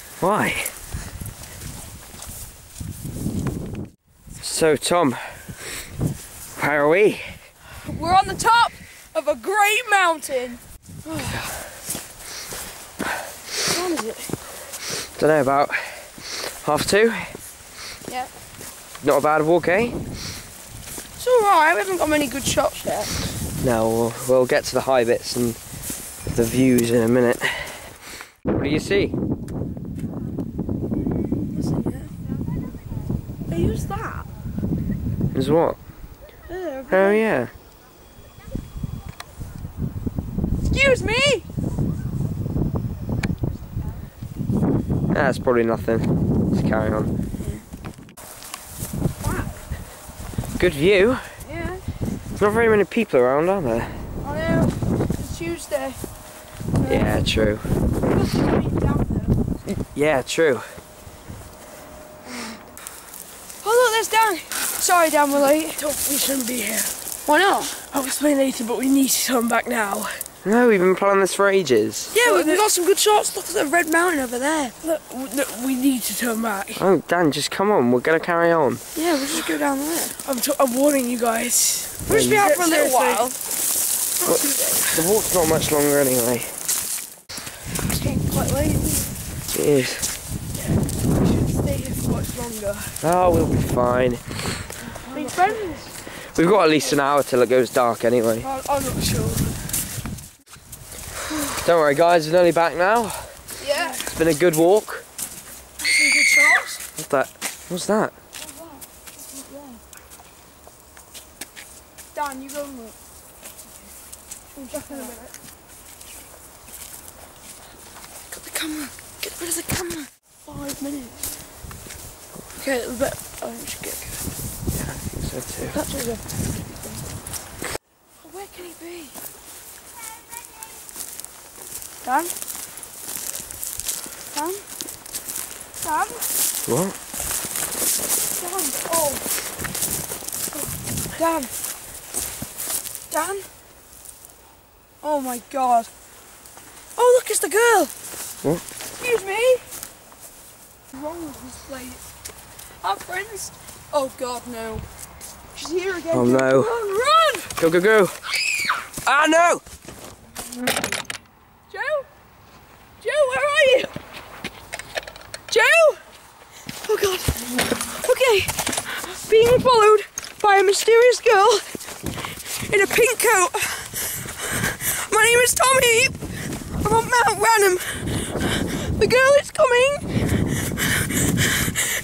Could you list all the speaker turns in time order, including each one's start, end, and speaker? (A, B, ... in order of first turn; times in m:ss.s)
0:00.2-0:00.7 A
0:04.4-0:05.4 A
0:06.6-0:07.3 A
0:07.8-0:11.4 B
0:13.6-0:14.3 B
0:15.2-0:17.3 A
0:19.0-0:20.0 A
0:21.2-0:23.1 B
0:23.6-0:25.6 A
0:26.3-0:28.0 A
0:28.5-0:29.1 A
0:31.5-0:32.1 B
0:33.5-0:34.3 B
0:35.3-0:35.8 A
0:36.5-0:37.2 B
0:36.9-0:37.5 A
0:40.7-0:41.4 B
0:45.1-0:47.1 A
0:49.2-0:49.6 B
0:50.6-0:51.2 A
0:51.4-0:51.8 B
0:52.4-0:53.9 A
0:54.2-0:56.0 B
0:56.8-0:57.2 B
0:56.8-0:57.6 A
0:58.0-0:59.4 B
0:59.7-1:00.6 A
1:02.3-1:02.6 B
1:03.6-1:05.8 B
1:05.7-1:06.9 C
1:07.2-1:07.8 B
1:07.9-1:10.2 C
1:10.4-1:12.1 A
1:12.1-1:14.7 B
1:12.1-1:12.6 C
1:14.8-1:16.8 C
1:16.8-1:18.8 A
1:18.9-1:20.2 B
1:20.2-1:23.3 C
1:22.0-1:23.4 B
1:22.1-1:22.4 A
1:24.2-1:25.0 C
1:24.2-1:26.5 A
1:27.9-1:29.0 B
1:28.4-1:28.8 C
1:29.5-1:30.1 A
1:31.2-1:32.9 C
1:33.0-1:34.4 A
1:35.0-1:35.9 C
1:35.1-1:35.9 B
1:36.2-1:38.5 A
1:38.4-1:39.5 C
1:41.6-1:43.4 A
1:43.6-1:44.1 B
1:43.8-1:44.0 C
1:44.1-1:45.0 A
1:45.8-1:46.8 B
1:47.0-1:48.1 A
1:48.4-1:49.8 B
1:52.1-1:53.0 B
1:54.5-1:55.3 B
1:58.3-2:01.3 B
2:02.6-2:04.2 B
2:04.8-2:05.8 A
2:05.7-2:06.2 B
2:08.2-2:09.1 B
2:12.0-2:12.3 B
2:14.3-2:14.6 B
2:15.8-2:16.2 B
2:16.6-2:17.0 A
2:18.4-2:19.2 B
2:21.1-2:21.5 B
2:23.1-2:23.5 B
2:25.0-2:25.9 B
2:27.0-2:27.9 B
2:29.0-2:29.6 B
2:30.9-2:32.0 B
2:32.8-2:34.8 B
2:35.5-2:37.5 B
2:36.1-2:36.7 A
2:37.6-2:38.1 A
2:39.0-2:39.6 A
2:41.7-2:42.1 B
2:43.0-2:43.9 B
2:45.5-2:46.0 B
2:46.8-2:51.6 B
2:52.5-2:56.2 B
2:56.7-3:00.3 B